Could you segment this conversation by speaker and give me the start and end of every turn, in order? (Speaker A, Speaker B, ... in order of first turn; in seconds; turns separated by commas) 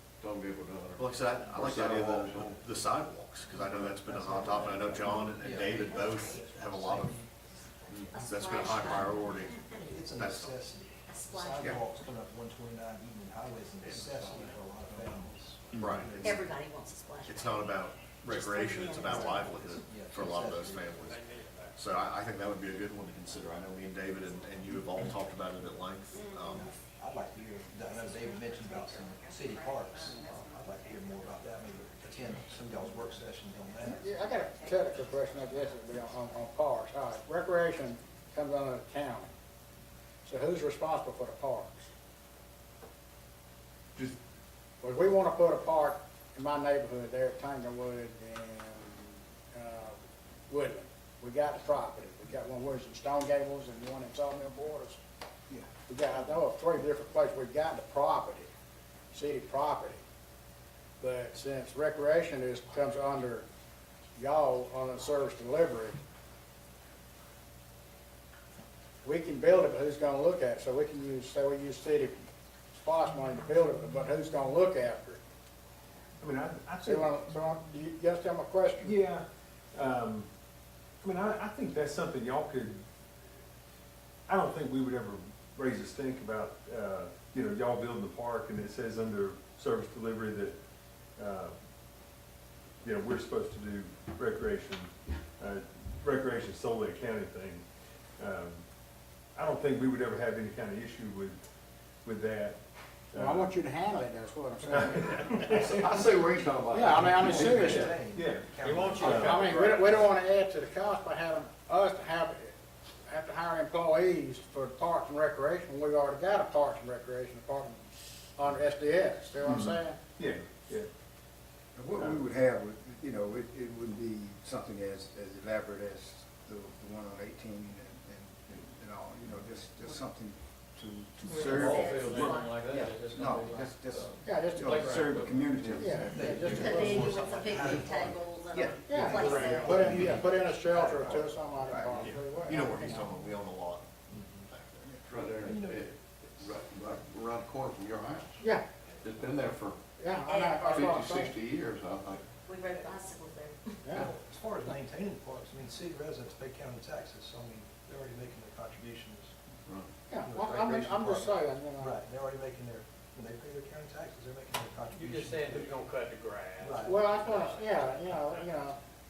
Speaker A: 0.2-3.0, Speaker B: 1.0-7.2, Speaker C: 3.5-7.3, Speaker D: 5.8-6.5, Speaker D: 7.5-10.0, Speaker B: 8.1-10.5, Speaker C: 9.8-16.5, Speaker D: 11.1-11.9, Speaker A: 13.9-15.1, Speaker B: 15.7-16.4, Speaker D: 16.2-17.7, Speaker B: 17.2-21.2, Speaker D: 18.3-19.7, Speaker C: 19.1-21.1, Speaker E: 21.1-21.7, Speaker B: 21.7-26.7, Speaker D: 26.1-26.6, Speaker C: 26.5-34.1, Speaker D: 27.8-31.5, Speaker D: 32.1-35.8, Speaker F: 33.9-39.3, Speaker F: 40.2-41.7, Speaker F: 44.8-50.0, Speaker F: 50.5-55.0, Speaker F: 55.9-58.5, Speaker F: 59.1-60.0, Speaker F: 61.0-63.5, Speaker F: 64.2-66.0, Speaker F: 69.0-72.3, Speaker F: 72.8-75.2, Speaker G: 76.2-77.2, Speaker F: 76.8-79.0, Speaker G: 78.8-80.3, Speaker G: 81.0-82.8, Speaker G: 84.3-90.5, Speaker G: 91.2-91.5, Speaker G: 92.8-97.6, Speaker G: 98.2-98.6, Speaker G: 99.3-101.4, Speaker G: 102.0-102.6, Speaker G: 103.1-103.6, Speaker F: 103.1-105.8, Speaker G: 104.7-105.7, Speaker A: 105.6-107.4, Speaker F: 106.7-108.0, Speaker C: 106.9-109.9, Speaker G: 107.5-109.5, Speaker E: 108.7-109.8, Speaker F: 109.0-112.5, Speaker F: 113.1-117.8, Speaker F: 118.4-120.0, Speaker G: 119.4-120.9, Speaker H: 121.7-137.1, Speaker G: 122.0-122.2, Speaker E: 131.4-133.6, Speaker D: 131.6-132.6, Speaker F: 134.2-134.7, Speaker E: 134.6-135.2, Speaker F: 135.8-137.1, Speaker C: 136.0-138.4, Speaker D: 136.4-140.2, Speaker H: 138.5-139.9, Speaker F: 138.8-143.2, Speaker C: 139.2-141.3, Speaker H: 140.9-142.2, Speaker B: 141.9-143.9, Speaker D: 142.7-143.1, Speaker C: 144.1-144.5, Speaker B: 144.5-145.0, Speaker A: 145.0-148.5, Speaker C: 145.3-145.9, Speaker A: 149.0-149.8, Speaker F: 150.0-151.3, Speaker D: 150.2-151.1, Speaker A: 150.7-152.2, Speaker D: 152.4-154.0, Speaker F: 153.8-154.1, Speaker C: 154.0-159.3, Speaker F: 160.1-161.9, Speaker C: 160.2-165.9, Speaker E: 164.9-167.8, Speaker C: 166.6-167.0, Speaker F: 166.8-168.8